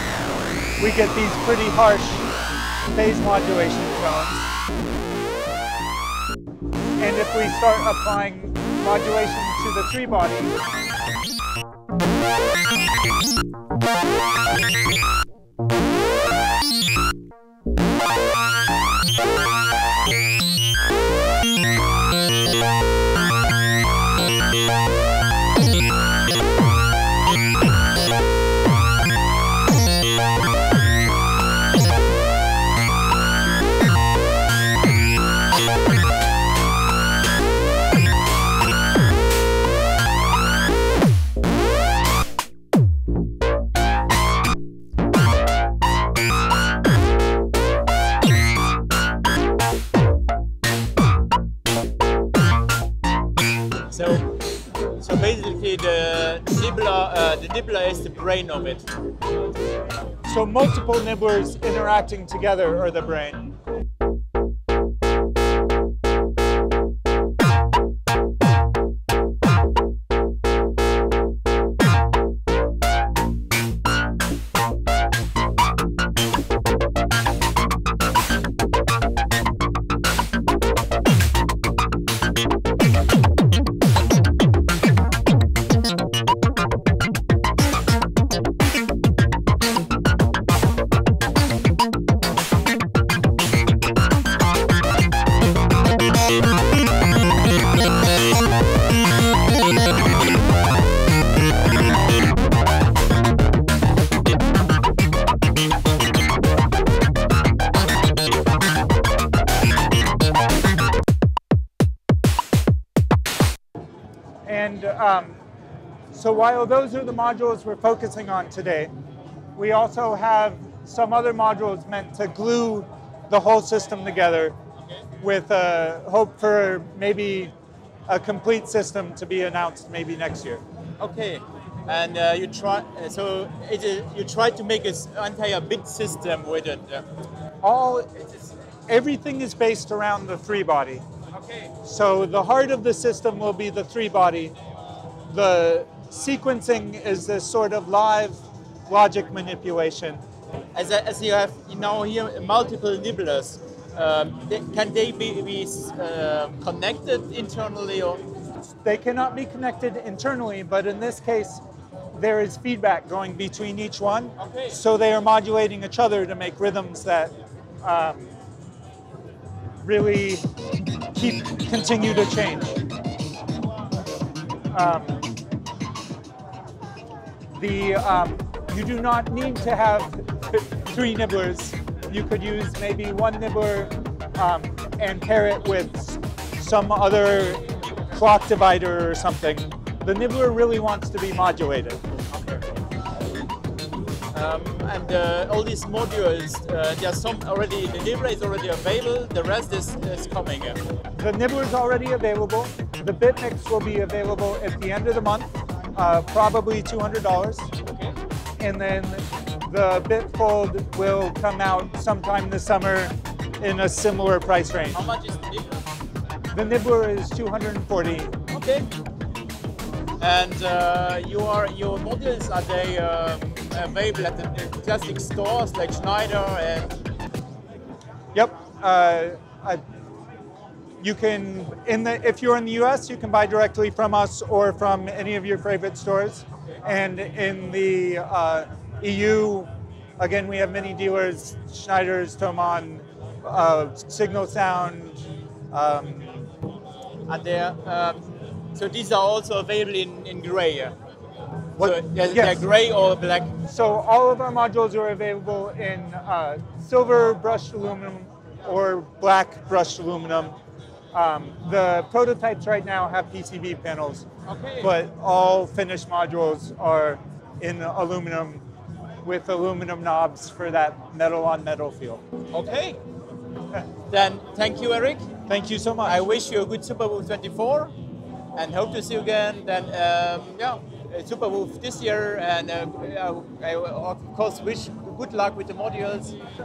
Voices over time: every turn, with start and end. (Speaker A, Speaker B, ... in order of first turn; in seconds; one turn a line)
Speaker A: 0.8-2.3
Speaker A: 2.9-4.5
Speaker A: 7.0-10.6
Speaker B: 53.9-54.4
Speaker B: 55.0-58.9
Speaker A: 60.2-63.5
Speaker A: 114.5-115.4
Speaker A: 116.1-118.9
Speaker A: 119.5-124.5
Speaker A: 125.2-127.5
Speaker A: 128.1-130.6
Speaker B: 131.0-137.0
Speaker A: 137.6-138.2
Speaker A: 138.9-141.0
Speaker A: 141.8-144.5
Speaker A: 145.3-150.2
Speaker B: 150.7-158.2
Speaker A: 158.8-161.6
Speaker A: 162.1-168.3
Speaker B: 164.4-164.8
Speaker A: 169.8-170.5
Speaker A: 171.1-172.7
Speaker A: 174.7-175.3
Speaker A: 177.5-192.0
Speaker B: 192.3-192.6
Speaker B: 194.3-200.8
Speaker A: 201.2-207.7
Speaker A: 208.6-215.0
Speaker B: 214.9-215.8
Speaker A: 216.5-218.3
Speaker B: 218.5-218.9
Speaker B: 220.2-226.9
Speaker A: 228.3-229.8
Speaker A: 231.0-246.5
Speaker B: 247.3-248.2
Speaker B: 248.7-250.9
Speaker A: 251.8-252.6
Speaker B: 251.8-253.5
Speaker A: 253.7-260.5
Speaker A: 261.1-264.2
Speaker B: 264.5-264.9
Speaker A: 264.8-268.6
Speaker A: 269.2-272.2
Speaker B: 272.5-273.0
Speaker B: 274.1-275.3
Speaker A: 275.5-276.2
Speaker B: 276.0-277.9
Speaker B: 278.5-286.3